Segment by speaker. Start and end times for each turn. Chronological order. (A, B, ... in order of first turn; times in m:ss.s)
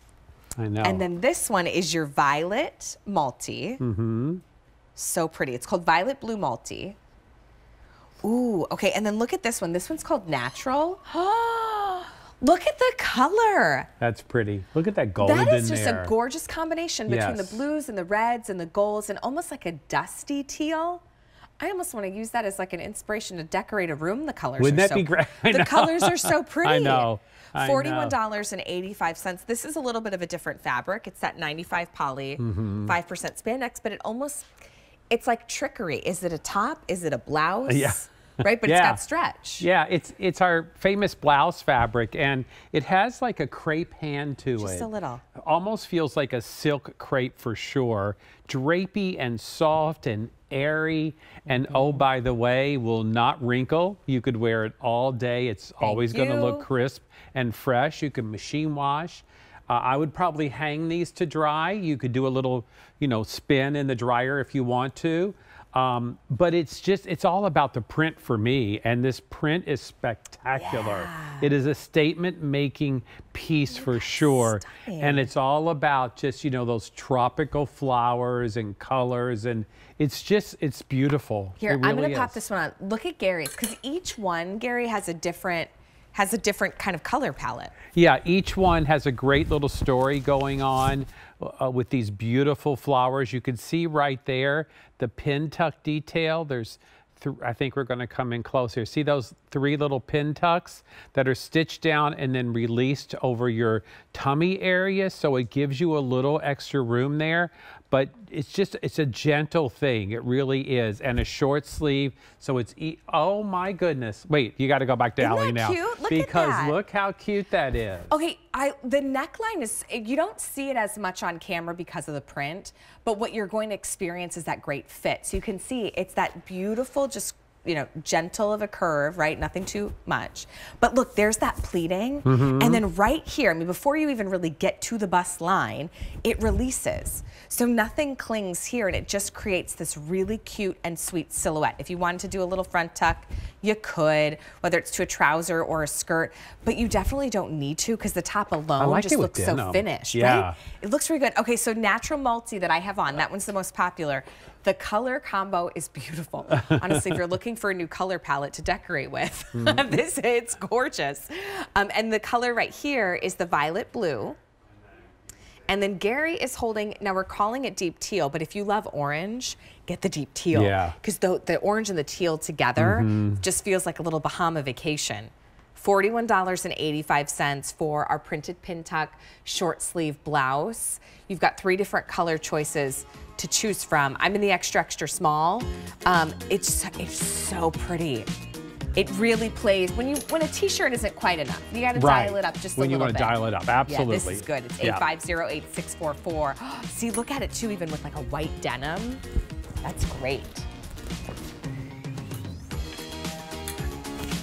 0:00.6-0:01.0 A
0:00.8-0:03.8 B
0:03.8-0:04.4 A
0:05.0-0:07.0 B
0:08.2-0:13.9 B
0:14.0-0:16.1 A
0:15.2-0:21.0 B
0:17.1-0:17.6 A
0:21.6-0:34.5 B
0:24.6-0:28.2 A
0:32.4-0:32.9 A
0:35.1-0:39.7 B
0:37.7-0:39.0 A
0:39.6-1:22.4 A
0:44.6-0:45.2 B
0:51.5-0:52.0 B
0:55.8-0:56.7 B
1:10.6-1:11.5 B
1:13.7-1:15.3 B
1:21.6-1:27.8 B
1:27.9-1:58.1 A
1:55.2-1:56.8 B
1:58.1-2:44.4 B
2:12.2-2:12.8 A
2:28.8-2:30.6 A
2:36.5-2:37.2 A
2:39.6-2:40.0 A
2:45.7-3:08.3 B
2:50.5-2:51.0 A
2:52.8-2:53.4 A
3:09.0-3:19.2 B
3:12.0-3:15.1 A
3:19.8-3:20.7 B